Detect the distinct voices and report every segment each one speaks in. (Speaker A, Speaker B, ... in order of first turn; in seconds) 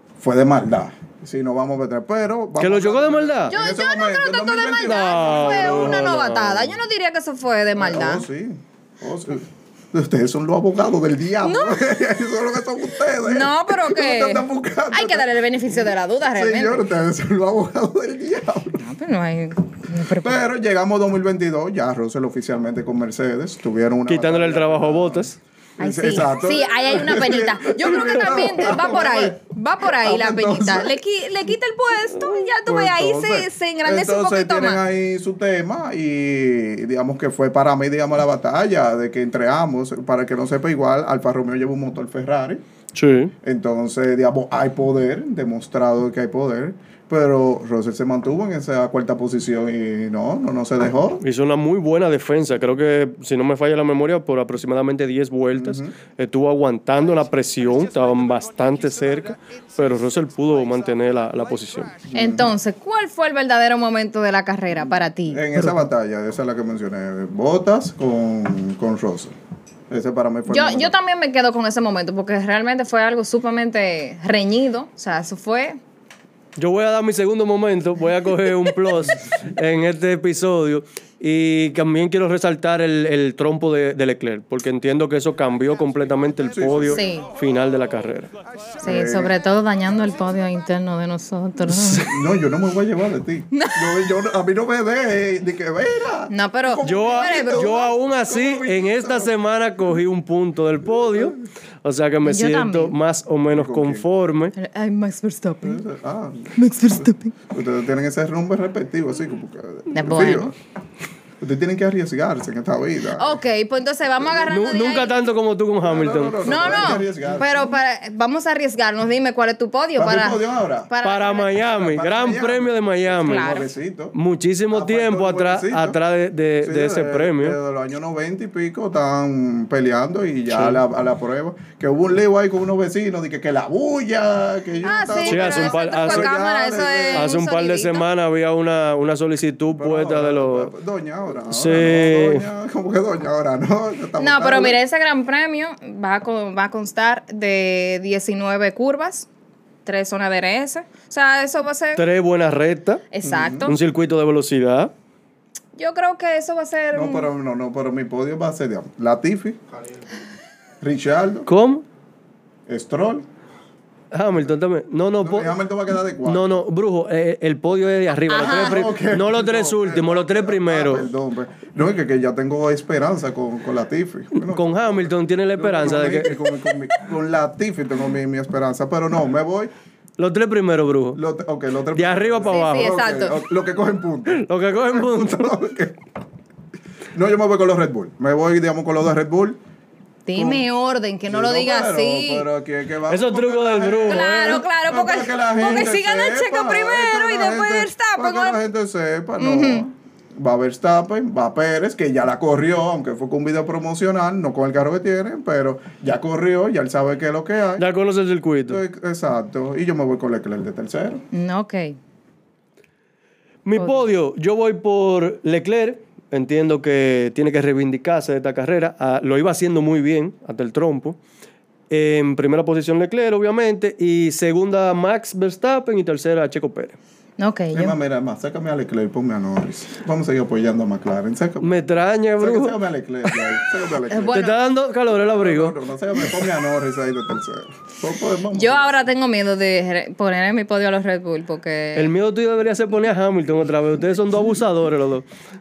Speaker A: 0.2-6.1, 7.8-18.8, 20.2-31.0, 32.6-42.6, 43.4-51.2, 55.5-56.0, 62.0-62.5, 64.8-69.3, 69.9-70.9, 86.5-87.0, 88.8-89.3, 92.0-99.3, 101.0-101.3, 103.5-104.0, 105.6-110.5, 111.4-113.4, 114.2-114.4, 115.8-117.7, 120.0-120.9, 121.6-124.1, 124.7-126.0, 126.6-137.3, 139.7-144.8, 153.2-153.8, 156.9-159.6, 160.8-161.5, 162.7-163.2, 165.2-166.6, 168.4-179.7, 181.1-186.0, 187.1-189.6, 190.3-190.6, 191.2-207.8, 208.6-211.2, 227.7-231.7, 232.4-234.4, 235.1-239.0
Speaker B: 2.6-3.5, 4.8-6.8, 24.1-25.4, 42.9-43.3, 51.2-61.9, 76.5-88.3, 91.7-92.1, 96.8-104.5, 114.5-117.0, 121.0-123.6, 124.1-127.6, 130.5-130.8, 135.2-136.3, 137.1-140.7, 141.5-142.5, 151.9-153.0, 153.7-154.9, 161.5-161.8, 164.1-165.6, 166.2-171.1, 174.4-176.5, 180.2-181.2, 181.9-182.9, 184.3-185.6, 193.1-194.6, 207.8-208.8, 213.6-221.2, 221.9-226.9, 231.6-233.6, 234.3-235.7, 241.9-245.2
Speaker C: 3.5-8.3, 11.4-11.9, 13.2-16.9, 18.7-20.5, 25.8-34.8, 62.1-65.9, 70.5-75.8, 86.9-87.3, 88.8-92.1, 93.5-94.1, 96.3-97.9, 102.2-103.0, 104.5-105.8, 106.5-107.3, 109.9-110.5, 113.2-115.3, 116.4-121.6, 123.2-123.7, 134.8-138.1, 144.2-149.3, 149.8-152.0, 153.1-153.8, 155.7-157.3, 168.3-168.9, 182.4-183.4, 190.2-192.5, 194.1-198.6, 199.4-199.8, 211.3-211.9, 213.8-214.1, 227.4-228.0, 234.1-234.6, 238.5-242.1